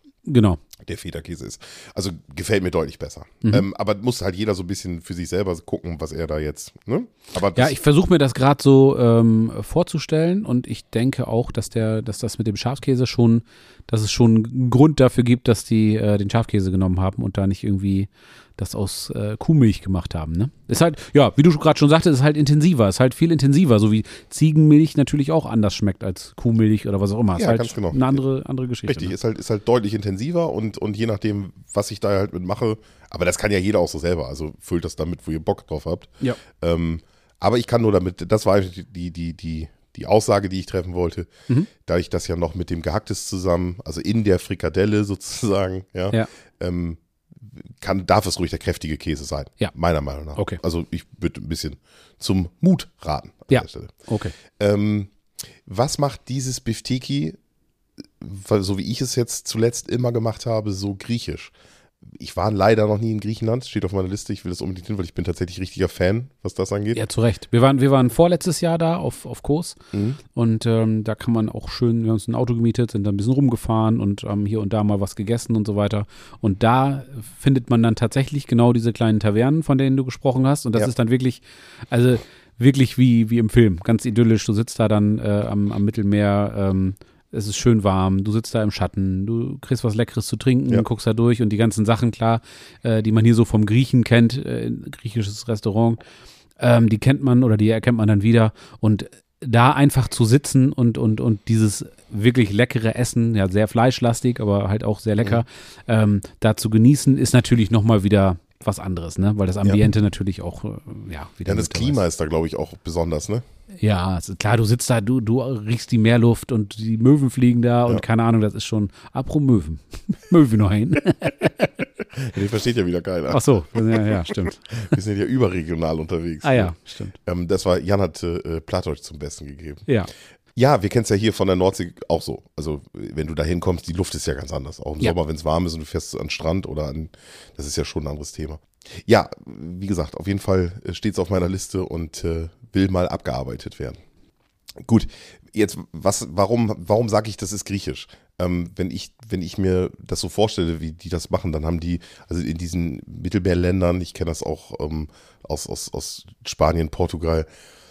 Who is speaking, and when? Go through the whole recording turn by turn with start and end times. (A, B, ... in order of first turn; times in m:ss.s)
0:00.2-0:00.6 A
0:00.8-0:07.8 B
0:07.5-0:29.1 A
0:27.4-0:28.2 B
0:28.8-0:53.9 B
0:53.5-0:54.3 A
0:54.5-0:55.1 B
0:55.6-0:57.4 B
0:58.2-1:01.5 B
1:02.0-1:07.0 B
1:06.9-1:09.8 A
1:09.9-1:10.2 B
1:10.3-1:36.0 A
1:36.6-1:52.0 A
1:51.4-1:53.4 B
1:53.8-2:01.7 A
2:02.1-2:06.7 B
2:03.3-2:05.0 A
2:06.4-2:07.1 A
2:07.2-2:09.8 B
2:10.5-2:24.0 B
2:24.8-2:37.4 B